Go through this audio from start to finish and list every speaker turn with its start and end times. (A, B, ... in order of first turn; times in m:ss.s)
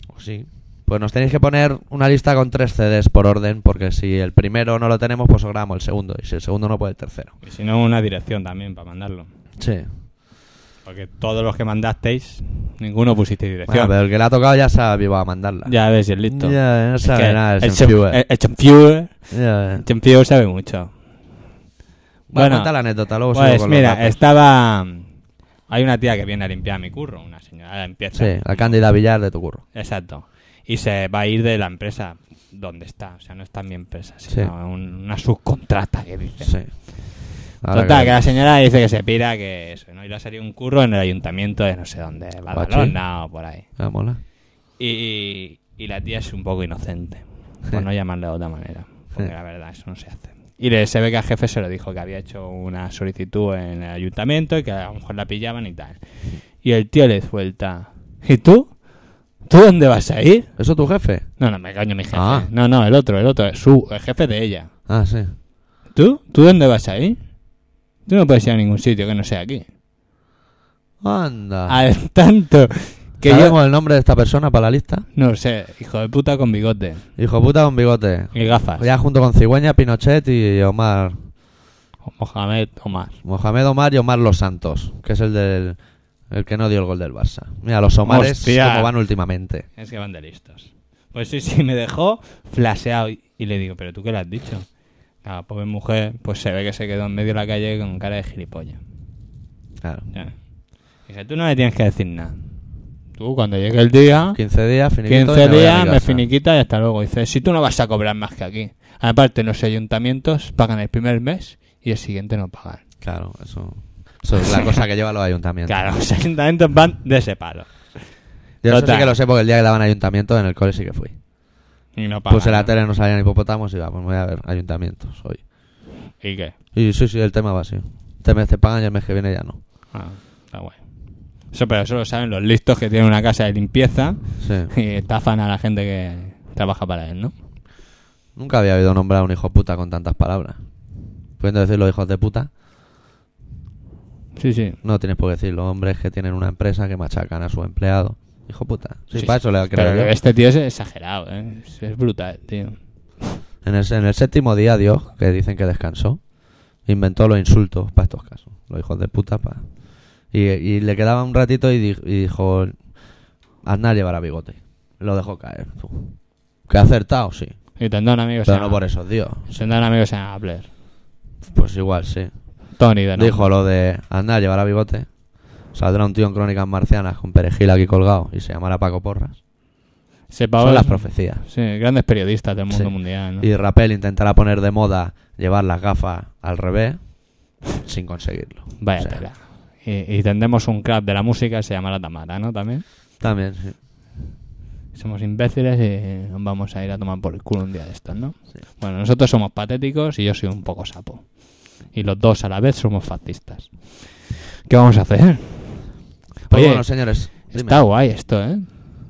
0:00.1-0:07.3 A
0:07.4-0:09.3 B
0:09.6-0:09.9 A
0:10.8-0:13.9 B
0:13.7-0:18.2 A
0:15.7-0:20.9 B
0:19.3-0:19.8 A
0:22.3-0:24.2 A
0:22.3-0:22.7 B
0:23.3-0:25.1 B
0:25.7-0:28.8 B
0:28.2-0:29.6 A
0:29.7-0:36.5 B
0:36.4-0:36.7 A
0:37.6-0:38.3 A
0:37.7-0:43.7 B
0:42.5-0:43.0 A
0:43.8-0:44.2 A
0:44.8-0:56.0 B
0:56.6-0:58.8 B
0:59.4-1:00.5 B
1:00.6-1:01.3 A
1:01.4-1:04.7 B
1:02.1-1:02.5 A
1:04.9-1:05.3 A
1:06.0-1:07.2 B
1:08.1-1:09.7 B
1:11.0-1:11.8 A
1:11.7-1:13.6 B
1:13.2-1:15.1 A
1:15.2-1:17.0 B
1:17.2-1:21.2 A
1:18.3-1:18.9 B
1:22.1-1:23.1 B
1:23.2-1:25.8 A
1:26.3-1:29.7 A
1:28.0-1:28.9 B
1:29.8-1:34.7 B
1:35.2-1:38.8 B
1:39.8-1:40.1 A
1:41.0-1:42.4 B
1:43.2-1:44.4 B
1:44.4-1:46.3 A
1:45.0-1:52.8 B
1:53.0-1:55.8 A
1:55.7-1:58.0 B
1:58.6-2:01.2 A
1:58.7-1:59.1 B
2:02.0-2:02.8 B
2:02.3-2:05.4 A
2:06.2-2:06.6 B
2:06.7-2:09.6 A
2:09.9-2:10.8 B
2:11.5-2:17.3 B
2:14.4-2:14.7 A
2:18.4-2:20.6 A
2:21.4-2:22.5 A
2:24.4-2:24.8 B
2:24.8-2:30.1 A
2:29.1-2:33.4 B
2:33.6-2:36.3 A
2:36.8-2:42.9 A
2:43.6-2:47.8 A
2:47.8-2:50.7 B
2:48.5-2:49.6 A
2:51.4-2:52.3 A
2:52.8-2:53.5 B
2:53.2-2:55.1 A
2:55.7-2:59.4 A
3:00.3-3:03.5 B
3:00.6-3:01.4 A
3:02.7-3:09.3 A
3:08.8-3:12.8 B
3:13.2-3:13.8 A
3:14.9-3:24.0 B
3:24.7-3:25.9 B
3:26.5-3:28.7 B
3:26.5-3:27.8 A